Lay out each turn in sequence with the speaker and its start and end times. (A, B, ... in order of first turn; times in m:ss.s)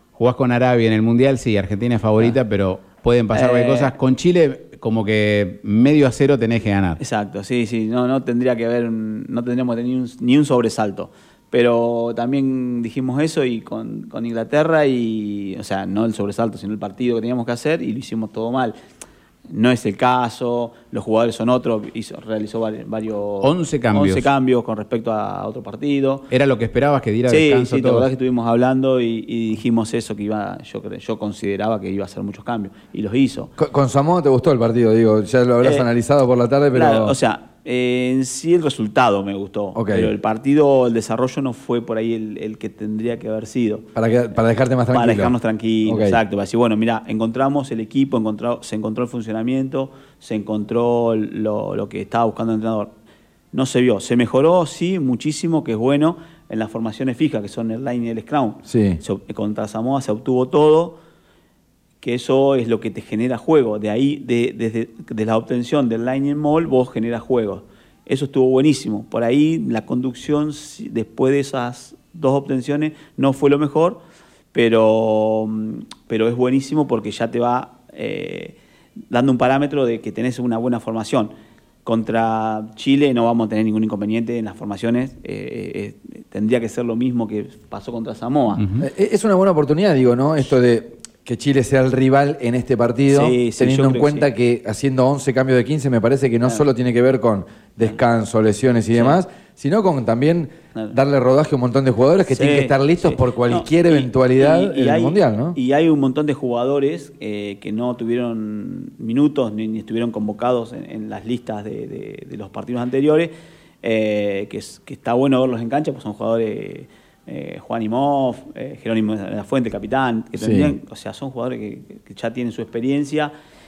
0:00.2-0:07.0 A
0:03.3-0:04.0 B
0:07.0-0:18.8 B
0:19.5-0:26.3 B
0:23.4-0:24.3 A
0:26.3-0:28.1 A
0:27.3-0:33.5 B
0:33.6-0:37.2 C
0:35.6-0:35.9 B
0:36.7-0:43.9 B
0:39.7-0:40.1 C
0:44.0-0:46.2 C
0:44.9-0:52.9 B
0:53.5-1:01.0 B
0:58.7-0:59.0 C
1:02.0-1:14.0 B
1:14.5-1:18.6 B
1:19.1-1:21.3 B
1:21.8-1:28.6 B
1:28.6-1:28.9 A
1:28.8-1:45.6 C
1:33.1-1:34.3 B
1:38.9-1:39.2 B
1:42.3-2:03.3 B
2:00.4-2:00.7 C